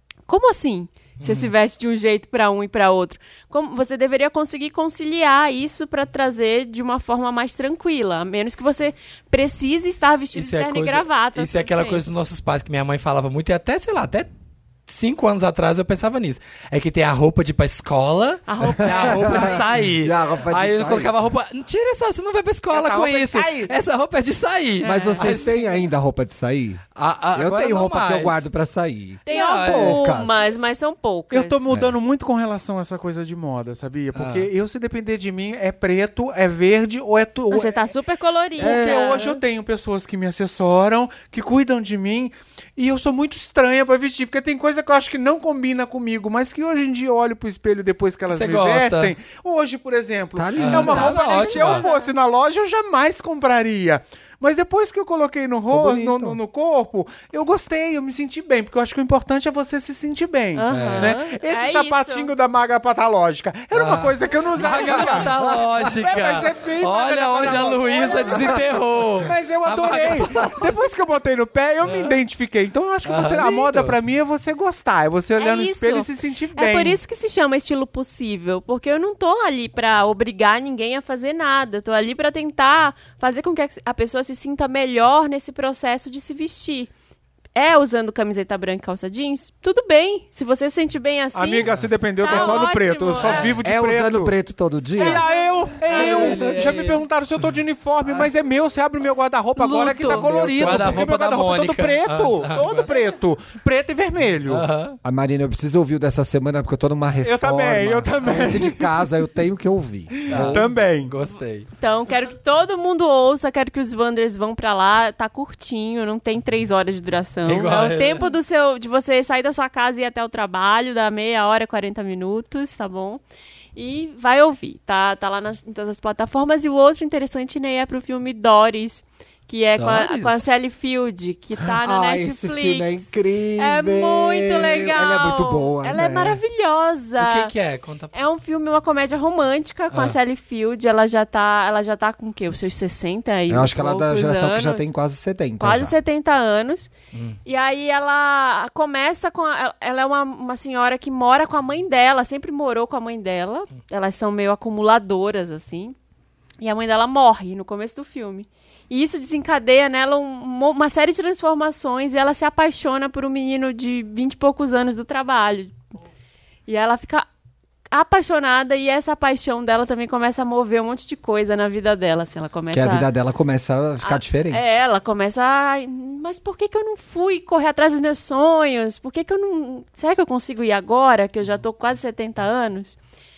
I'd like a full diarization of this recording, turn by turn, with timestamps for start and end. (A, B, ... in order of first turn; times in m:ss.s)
0:00.3-0:12.0 A
0:01.2-0:01.5 B
0:10.3-0:14.3 B
0:14.9-0:25.6 B
0:18.5-0:19.6 A
0:18.7-0:21.1 C
0:22.7-0:23.7 D
0:24.8-0:25.6 A
0:24.8-0:30.6 C
0:26.9-0:28.4 B
0:29.3-0:31.6 A
0:29.3-0:30.1 B
0:31.3-0:37.9 D
0:31.7-0:31.9 C
0:34.1-0:34.5 B
0:37.5-0:39.4 A
0:38.6-1:08.5 D
0:38.6-0:39.3 C
0:48.3-0:49.1 B
0:50.4-0:51.2 C
0:50.6-0:51.8 B
0:51.0-0:52.1 A
0:55.7-0:56.4 C
1:00.5-1:02.3 A
1:00.7-1:01.2 B
1:03.7-1:10.8 B
1:04.9-1:05.6 C
1:09.2-1:17.0 D
1:11.8-1:12.2 B
1:13.0-1:14.0 B
1:15.4-1:26.9 A
1:27.5-1:31.6 A
1:31.3-1:34.3 D
1:32.2-1:33.6 A
1:32.3-1:32.6 B
1:33.2-1:33.6 B
1:33.6-1:35.2 C
1:35.0-1:44.6 D
1:35.0-1:35.4 A
1:35.9-1:37.0 B
1:35.9-1:36.5 C
1:40.0-1:41.0 C
1:40.0-1:42.9 B
1:44.4-1:45.0 B
1:45.0-1:50.7 C
1:47.2-1:48.9 D
1:50.2-1:51.1 D
1:50.3-1:51.7 B
1:51.8-2:03.2 A
1:57.4-1:58.3 B
2:03.7-2:13.0 A
2:09.8-2:10.4 B
2:11.7-2:16.4 C
2:13.6-2:17.5 A
2:17.2-2:18.1 B
2:18.1-2:24.9 A
2:19.9-2:20.2 B
2:23.5-2:26.0 C
2:25.6-2:26.9 A
2:27.1-2:27.4 B
2:27.4-2:36.0 A
2:36.6-2:45.8 A
2:46.7-2:47.3 A
2:47.9-2:53.1 A
2:52.7-2:54.8 C
2:54.0-3:03.0 A